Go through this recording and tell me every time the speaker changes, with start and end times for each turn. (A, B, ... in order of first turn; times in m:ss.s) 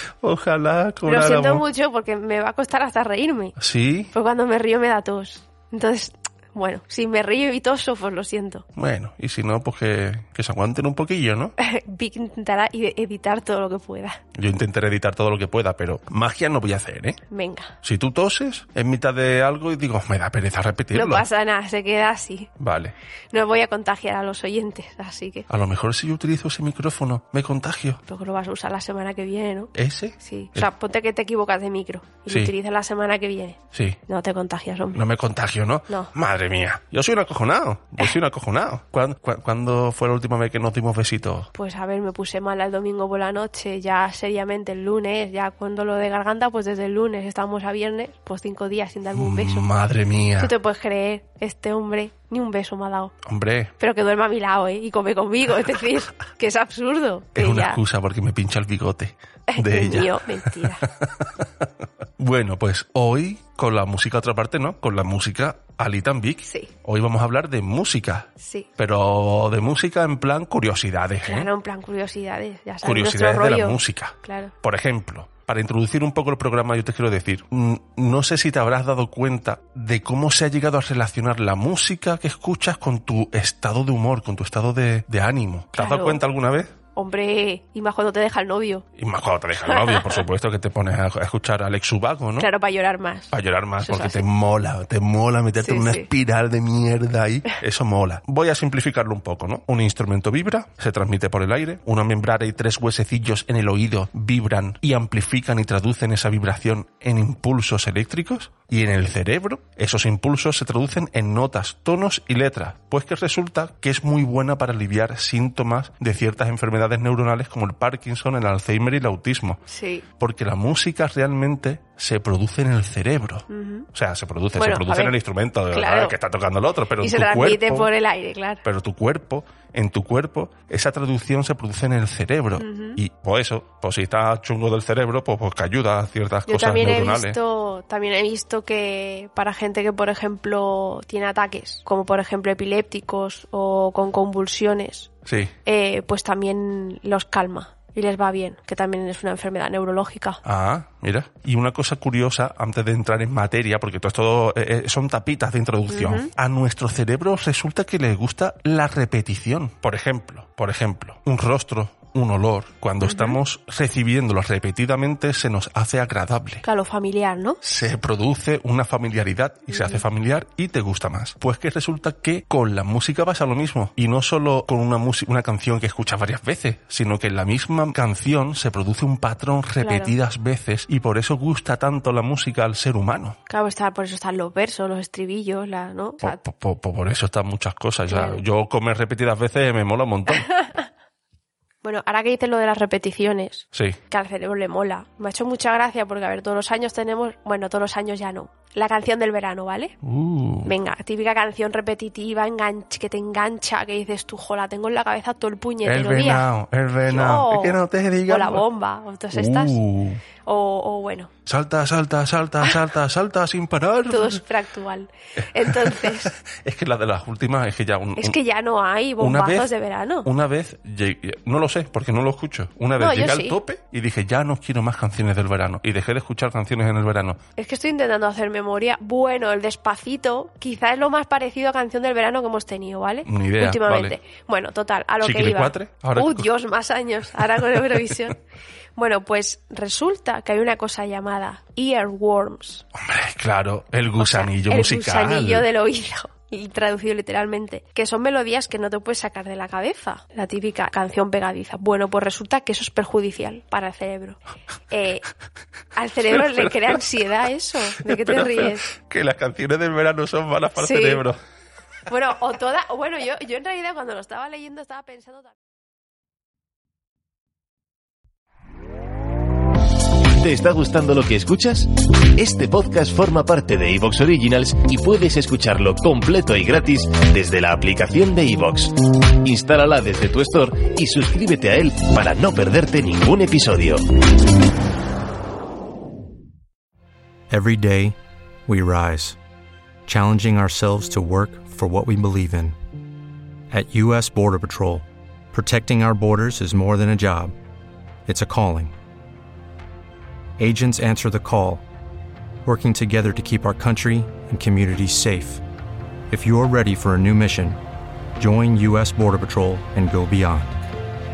0:00.2-0:01.6 A
0:01.0-0:03.6 B
0:03.6-0:04.1 A
0:04.1-0:08.6 B
0:08.8-0:11.5 A
0:11.6-0:14.2 B
0:14.3-0:17.2 A
0:17.3-0:17.7 B
0:17.8-0:21.2 A
0:20.9-0:22.5 B
0:22.6-0:22.9 A
0:23.3-0:25.4 B
0:25.5-0:28.0 A
0:28.1-0:29.7 B
0:29.7-0:30.7 A
0:30.2-0:35.0 B
0:33.7-0:34.0 A
0:34.9-0:41.5 A
0:41.5-0:49.7 B
0:49.1-0:50.5 A
0:50.4-0:53.1 B
0:53.2-0:53.7 A
0:53.8-0:57.8 B
0:57.4-1:00.2 A
0:59.5-1:00.8 B
1:01.0-1:01.7 A
1:02.2-1:11.5 A
1:06.4-1:06.7 B
1:08.4-1:08.7 B
1:11.2-1:14.5 B
1:12.8-1:26.7 A
1:25.8-1:26.2 B
1:27.0-1:28.8 B
1:29.0-1:32.5 A
1:29.6-1:30.2 B
1:32.4-1:34.2 B
1:33.3-1:59.6 A
1:35.6-1:36.1 B
1:59.7-2:00.0 B
2:00.1-2:07.9 A
2:03.5-2:03.9 B
2:04.6-2:05.1 B
2:05.7-2:06.2 B
2:07.0-2:08.6 B
2:08.6-2:17.4 A
2:12.6-2:13.0 B
2:16.5-2:25.1 B
2:25.2-2:25.5 A
2:25.6-2:30.4 B
2:30.4-2:46.6 A
2:35.9-2:36.3 B
2:43.0-2:43.4 B
2:46.6-2:47.6 B
2:47.6-3:03.4 A
2:49.7-2:50.0 B
2:59.8-3:00.1 B
3:03.5-3:06.4 B
3:06.2-3:10.6 A
3:08.1-3:08.4 B
3:11.8-3:19.9 B
3:20.0-3:20.8 A
3:20.6-3:26.5 B
3:25.8-3:28.6 A
3:27.0-3:29.8 B
3:29.3-3:30.2 A
3:30.4-3:31.3 B
3:31.4-3:34.4 A
3:34.1-3:36.3 B
3:35.6-3:38.4 A
3:38.2-3:40.3 B
3:39.2-3:47.4 A
3:43.0-3:43.6 B
3:47.6-3:58.4 B
3:53.2-3:54.1 A
3:55.2-3:56.5 A
3:59.0-4:02.8 B
4:02.9-4:05.7 A
4:04.2-4:15.3 B
4:15.9-4:18.9 B
4:16.3-4:16.7 A
4:18.1-4:21.4 A
4:20.8-4:21.2 B
4:22.1-4:25.5 B
4:30.4-4:44.0 C
4:47.5-4:49.4 D
4:50.1-4:52.8 D
4:53.7-4:57.5 D
4:58.2-4:58.9 D
5:00.6-5:01.8 D
5:02.6-5:05.6 D
5:06.3-5:07.8 D
5:08.4-5:10.8 D